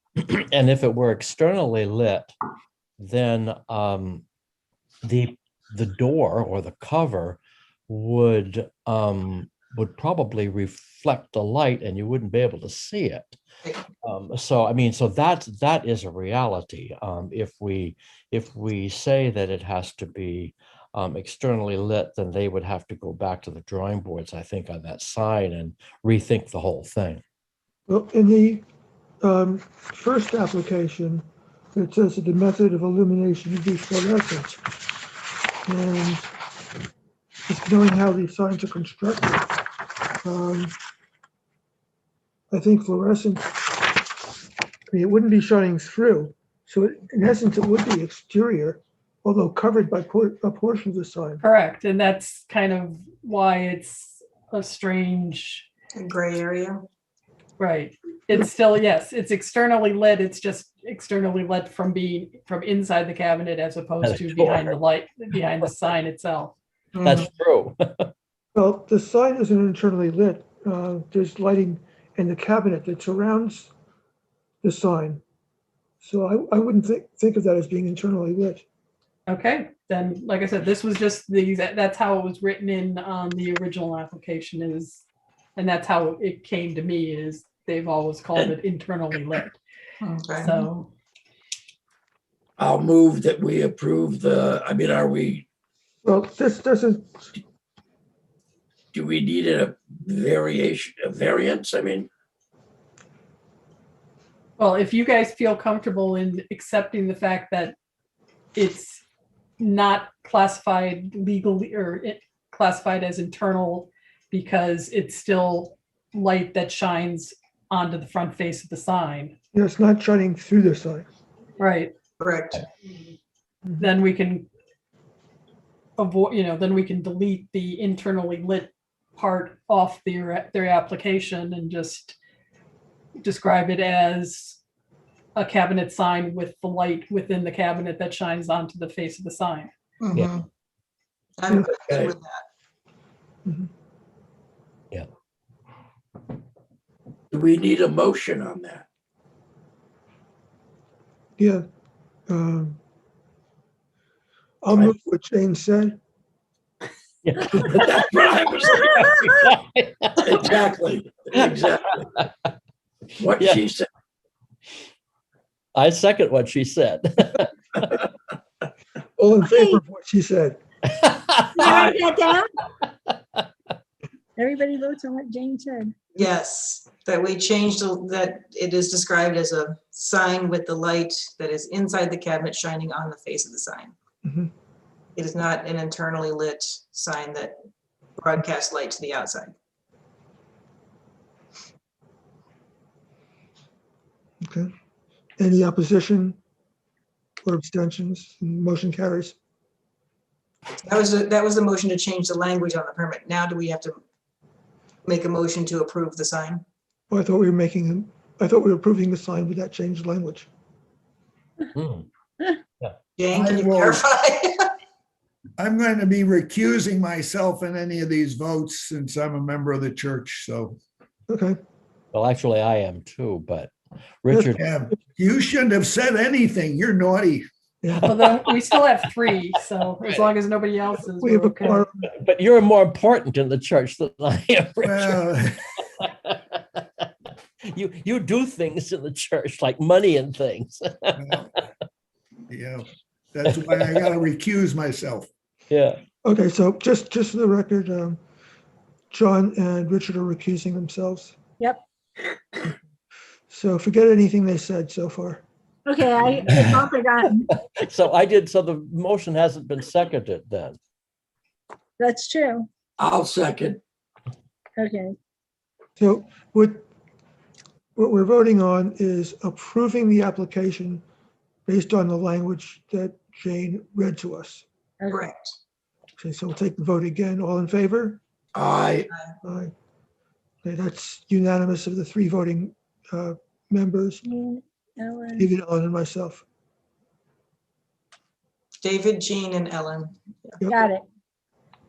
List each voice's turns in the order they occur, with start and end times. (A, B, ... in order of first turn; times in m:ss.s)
0:00.2-0:02.3 A
0:03.0-0:04.2 A
0:05.0-0:13.4 A
0:14.0-0:27.2 A
0:27.9-0:28.6 B
0:29.2-0:34.6 B
0:35.6-0:36.3 B
0:37.5-0:39.5 B
0:40.2-0:40.7 B
0:42.5-0:43.8 B
0:44.9-0:51.4 B
0:51.4-0:55.6 C
0:56.0-0:56.8 D
0:57.6-1:06.6 C
1:04.0-1:04.7 A
1:06.9-1:07.3 D
1:07.0-1:08.1 A
1:08.5-1:13.7 B
1:14.6-1:15.2 B
1:16.0-1:18.6 B
1:19.3-1:25.0 C
1:25.6-1:29.6 C
1:30.0-1:30.6 D
1:30.4-1:30.9 C
1:32.6-1:35.4 E
1:36.0-1:37.4 B
1:38.9-1:42.1 E
1:44.6-1:47.7 C
1:48.6-1:49.0 C
1:49.6-1:59.3 C
1:59.5-2:01.1 B
2:01.6-2:01.9 C
2:02.2-2:02.6 D
2:03.8-2:04.5 C
2:06.0-2:12.2 C
2:13.2-2:14.6 C
2:15.4-2:19.7 C
2:20.0-2:20.4 D
2:21.4-2:22.4 D
2:21.9-2:22.1 E
2:23.4-2:23.7 B
2:27.3-2:28.8 E
2:31.4-2:31.6 B
2:32.3-2:32.8 B
2:34.6-2:36.0 B
2:37.2-2:40.4 A
2:37.5-2:38.9 E
2:40.2-2:42.0 E
2:43.2-2:43.8 E
2:43.4-2:43.6 A
2:45.7-2:47.8 A
2:49.2-2:50.6 B
2:49.5-2:49.8 F
2:50.9-2:51.8 A
2:51.6-2:52.5 F
2:51.6-2:52.0 E
2:54.4-2:56.0 F
2:56.2-3:03.9 D
3:04.2-3:04.5 B
3:05.2-3:07.5 D
3:08.2-3:09.5 D
3:14.4-3:14.7 B
3:15.4-3:16.4 B
3:17.4-3:19.4 B
3:20.8-3:24.0 D
3:25.0-3:26.6 D
3:27.1-3:30.5 B
3:31.7-3:32.1 A
3:33.2-3:34.5 D
3:33.3-3:34.0 G
3:35.6-3:40.8 G
3:41.3-3:41.6 B
3:42.1-3:44.6 A
3:44.3-3:45.0 B
3:44.6-3:47.5 G
3:47.8-3:48.1 B
3:48.0-3:48.4 A
3:48.0-3:51.8 C
3:51.2-3:52.1 B
3:52.1-3:55.2 A
3:54.8-3:55.6 G
3:56.0-3:56.8 A
3:57.7-4:01.2 A
4:01.2-4:01.6 G
4:02.5-4:05.3 G
4:03.5-4:04.0 A
4:05.7-4:06.0 A
4:06.2-4:08.2 B
4:09.1-4:11.4 B
4:13.5-4:15.4 B
4:15.8-4:17.5 F
4:16.5-4:16.8 A
4:17.8-4:20.8 A
4:22.0-4:22.7 F
4:23.0-4:23.8 E
4:24.8-4:25.2 F
4:26.0-4:26.8 B
4:28.0-4:31.0 B
4:31.7-4:34.6 B
4:35.0-4:35.3 F
4:35.1-4:35.5 D
4:36.2-4:38.2 B
4:38.5-4:39.1 E
4:39.4-4:39.7 B
4:40.6-4:44.2 B
4:44.2-4:45.5 F
4:45.4-4:46.4 B
4:48.8-4:50.6 D
4:50.6-4:50.9 B
4:50.7-4:51.0 F